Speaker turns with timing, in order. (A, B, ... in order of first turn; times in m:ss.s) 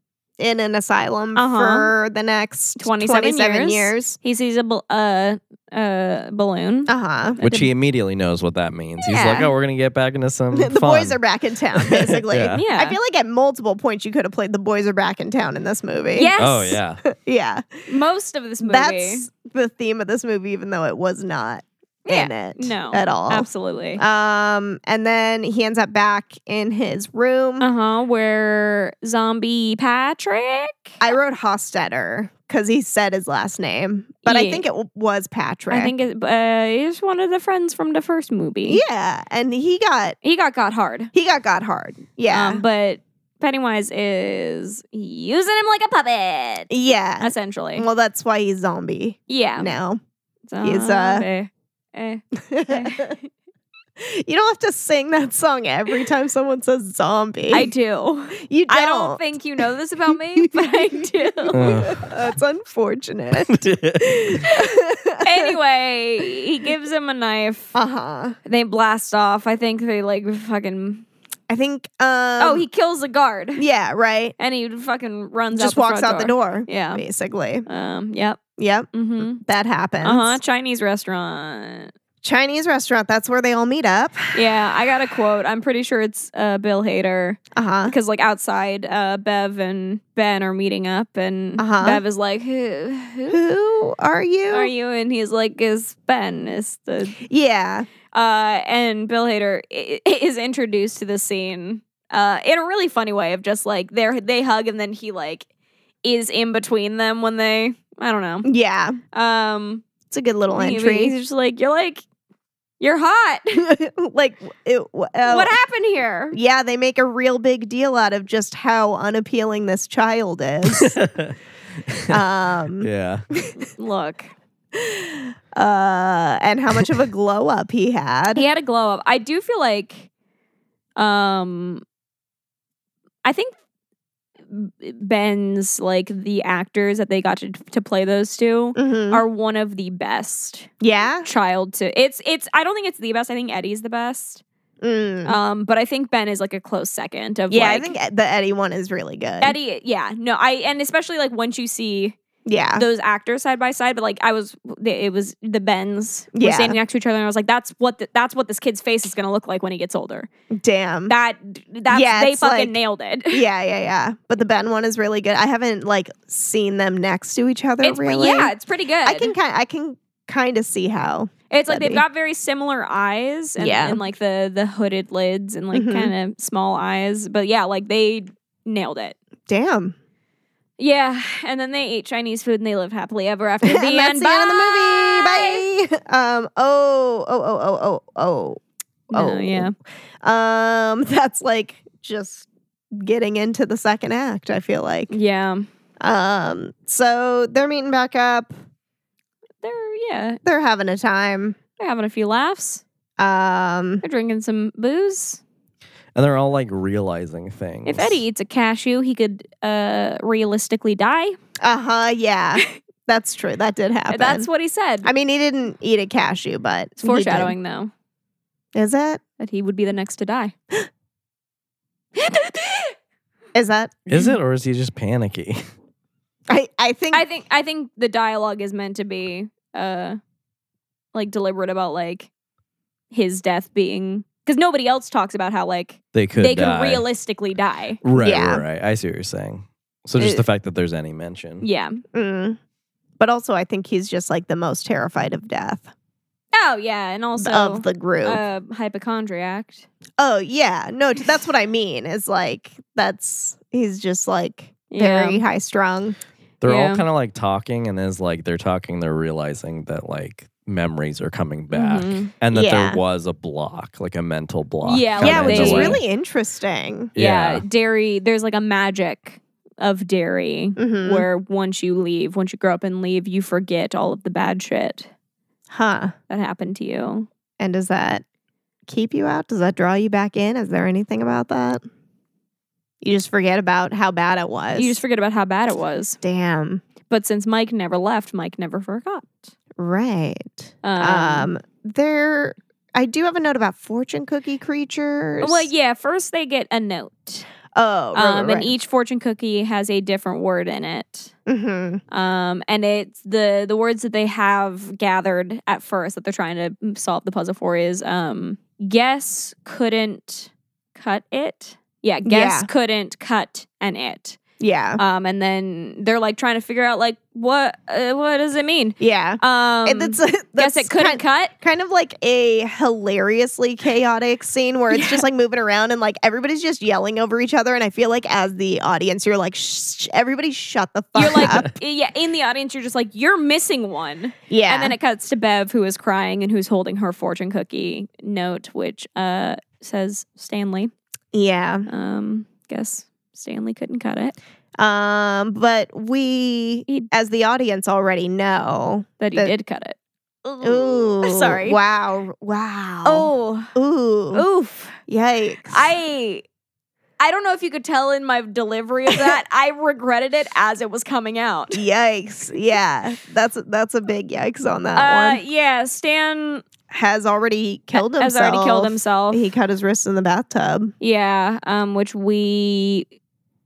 0:00.4-0:04.2 A
0:01.4-0:01.9 B
0:02.8-0:07.7 B
0:06.9-0:07.4 A
0:07.4-0:11.2 C
0:09.0-0:09.5 B
0:10.5-0:16.3 A
0:11.7-0:12.6 C
0:12.6-0:13.0 B
0:16.1-0:16.8 B
0:16.4-0:17.0 C
0:17.0-0:17.8 A
0:17.9-0:19.3 B
0:18.6-0:27.7 A
0:22.1-0:24.0 B
0:27.6-0:31.0 B
0:31.0-0:35.9 A
0:34.2-0:34.6 B
0:35.7-0:38.8 B
0:38.6-0:40.2 A
0:40.2-0:41.1 B
0:41.1-0:42.6 A
0:42.3-0:47.9 B
0:46.7-0:50.0 A
0:49.3-0:49.7 B
0:50.5-0:53.3 B
0:50.6-0:51.2 A
0:52.4-0:53.2 A
0:54.0-0:57.7 A
0:57.5-1:01.7 B
0:58.4-0:59.2 A
1:00.4-1:05.6 A
1:01.5-1:02.1 C
1:03.5-1:04.4 C
1:05.2-1:07.7 B
1:07.7-1:08.4 A
1:08.4-1:11.1 B
1:11.5-1:12.6 A
1:12.4-1:13.7 B
1:13.6-1:14.4 A
1:14.4-1:17.0 B
1:15.5-1:17.7 A
1:17.7-1:18.4 B
1:18.6-1:20.4 A
1:18.9-1:19.4 B
1:20.0-1:21.9 B
1:22.2-1:24.4 A
1:24.3-1:33.4 B
1:27.5-1:28.0 A
1:31.6-1:32.0 A
1:33.3-1:34.7 A
1:34.5-1:37.2 B
1:37.2-1:37.9 A
1:38.1-1:45.5 B
1:46.0-1:48.5 B
1:48.4-1:49.0 A
1:49.1-1:49.8 B
1:50.1-1:51.1 A
1:50.5-1:52.0 B
1:52.8-1:53.6 B
1:53.6-1:55.5 A
1:55.2-1:56.4 B
1:56.3-2:01.0 A
2:00.7-2:01.4 C
2:01.9-2:02.2 C
2:02.1-2:02.9 A
2:02.8-2:03.2 C
2:03.6-2:04.3 B
2:04.7-2:08.4 A
2:08.3-2:10.1 B
2:11.0-2:11.8 B
2:13.2-2:13.5 B
2:14.5-2:20.7 B
2:18.8-2:19.2 A
2:20.8-2:21.3 A
2:21.2-2:24.4 B
2:24.8-2:25.4 A
2:25.2-2:27.9 B
2:27.5-2:29.6 A
2:29.4-2:32.2 B
2:32.4-2:32.8 A
2:32.8-2:40.3 B
2:36.3-2:36.8 A
2:40.5-2:41.1 A
2:41.1-2:43.4 B
2:41.9-2:42.8 A
2:43.3-2:52.0 A
2:47.8-2:49.3 B
2:51.5-2:59.2 B
2:53.6-2:54.0 A
2:55.7-2:56.1 A
2:59.5-3:00.0 A
3:00.8-3:05.6 B
3:03.6-3:15.1 A
3:09.1-3:09.7 B
3:15.1-3:15.7 B
3:16.0-3:18.5 A
3:19.6-3:20.4 B
3:20.4-3:21.6 A
3:21.8-3:22.8 B
3:23.2-3:24.0 A
3:24.0-3:25.4 B
3:26.1-3:28.2 C
3:27.8-3:31.4 B
3:31.6-3:34.5 A
3:34.1-3:35.1 B
3:35.0-3:37.6 A
3:37.0-3:37.9 B
3:38.7-3:39.2 A
3:39.4-3:40.5 B
3:42.1-3:43.0 B
3:43.6-3:44.0 A
3:44.1-3:45.6 C
3:46.5-3:47.2 A
3:47.1-3:50.2 B
3:51.1-3:52.3 B
3:53.1-3:58.0 B
3:56.1-3:57.0 C
3:58.0-4:01.6 C
3:58.1-3:58.6 A
4:01.6-4:02.0 B
4:02.1-4:02.6 A
4:03.2-4:05.9 A
4:06.5-4:09.9 B
4:07.4-4:08.4 A
4:10.2-4:16.2 A
4:14.9-4:15.4 B
4:16.6-4:26.0 C
4:16.6-4:17.0 B
4:21.7-4:22.3 B
4:22.5-4:23.0 A
4:24.8-4:26.0 B
4:25.2-4:27.1 A
4:27.1-4:27.6 C
4:27.2-4:35.1 B
4:30.8-4:31.3 A
4:35.7-4:36.1 A
4:36.3-4:37.3 B
4:37.6-4:38.2 A
4:38.9-4:41.8 A
4:43.0-4:45.0 A
4:44.7-4:46.2 B
4:46.2-4:46.8 A
4:47.1-4:49.5 B
4:49.8-4:55.7 A
4:50.8-4:51.5 B
4:55.4-4:57.5 B
4:57.7-4:58.7 A
4:58.1-5:01.3 B
5:01.4-5:02.0 A
5:02.1-5:14.4 B
5:12.2-5:12.7 A
5:14.6-5:15.0 A
5:15.0-5:21.5 B
5:19.0-5:31.7 A
5:24.9-5:25.2 B
5:31.1-5:40.9 B
5:34.5-5:35.0 A
5:41.3-5:41.9 A
5:41.9-5:44.4 B
5:44.8-5:49.5 A
5:49.2-5:51.8 B
5:50.6-5:54.4 A
5:53.0-5:53.7 B
5:54.3-5:55.0 B
5:55.0-5:55.9 A
5:55.7-5:56.4 B
5:57.2-6:01.8 B
5:59.1-5:59.4 A
6:01.7-6:05.4 A
6:05.0-6:06.6 B
6:06.9-6:10.9 A
6:08.0-6:09.5 B
6:11.0-6:13.1 B